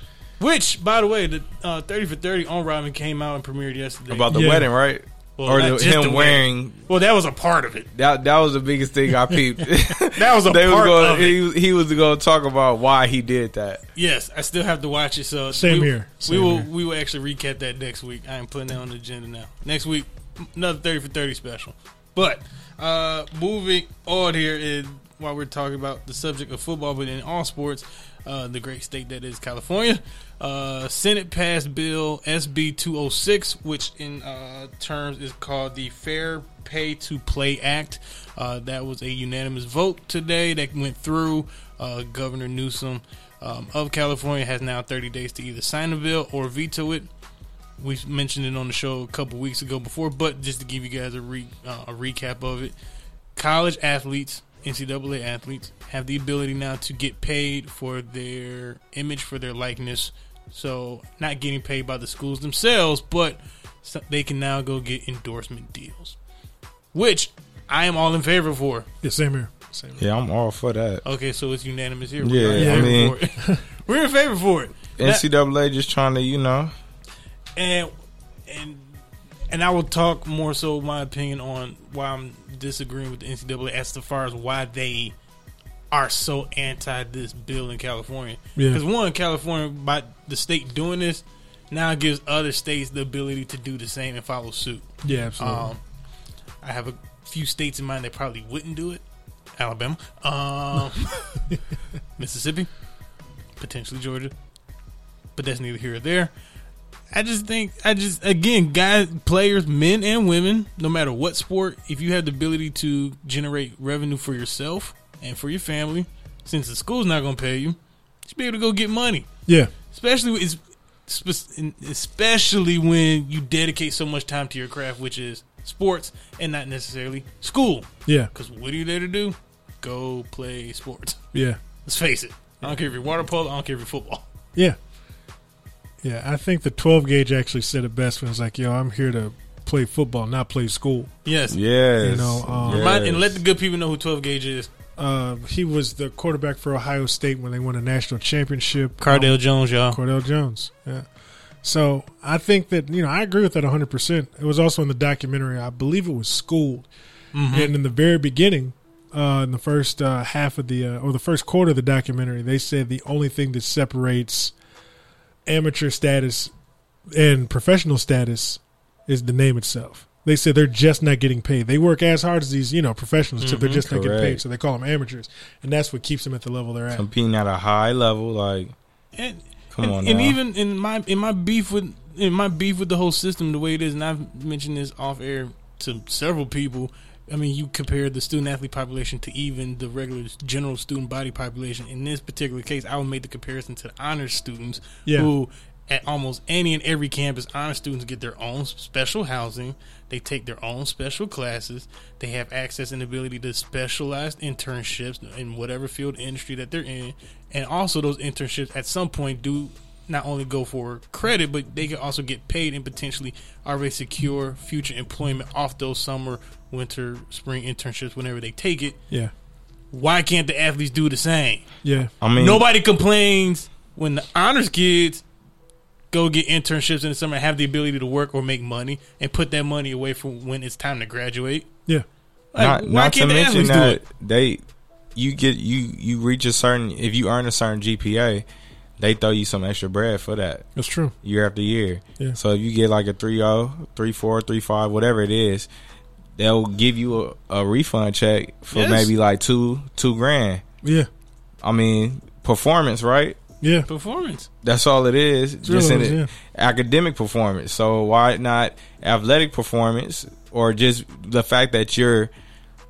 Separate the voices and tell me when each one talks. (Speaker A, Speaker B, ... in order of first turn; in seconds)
Speaker A: 0.4-4.5, 5.4-7.9, 10.1-11.4, 13.9-47.1, 47.8-52.7, 53.4-66.2, 66.9-68.9, 71.0-75.2, 77.6-77.9, 78.5-78.9, 79.5-85.1, 85.9-95.8, 96.6-99.0, 99.6-101.4, 102.2-102.7, 103.6-104.3, 105.3-106.3, 107.1-119.3, 119.9-131.2, 131.8-134.2, 141.2-141.6, 142.6-144.7, 149.0-150.0, 157.3-157.7, 173.4-173.8, 179.2-219.0, 219.9-221.6, 222.3-225.2, 226.1-231.7, 232.5-234.0, 248.7-249.1, 253.9-254.5
Speaker B: 4.1-6.8, 7.9-13.8, 70.0-71.0, 72.2-73.2, 75.0-76.7, 141.5-143.4, 173.8-174.4, 176.9-178.7, 179.7-180.4, 222.2-222.6, 232.6-234.6, 235.2-238.4, 239.0-240.7, 241.2-245.7, 246.4-250.6, 251.6-253.4, 254.6-262.3
Speaker C: 4.3-4.7, 15.5-16.7, 69.0-70.0, 72.5-73.6, 88.5-88.8, 95.0-95.7, 119.5-119.7, 131.3-131.6, 136.0-141.1, 142.0-142.9, 145.0-151.1, 151.6-156.9, 157.5-164.5, 165.4-166.5, 167.1-177.1, 195.1-195.3, 221.8-222.1, 240.8-241.1, 250.8-251.1, 253.6-253.9, 255.6-256.3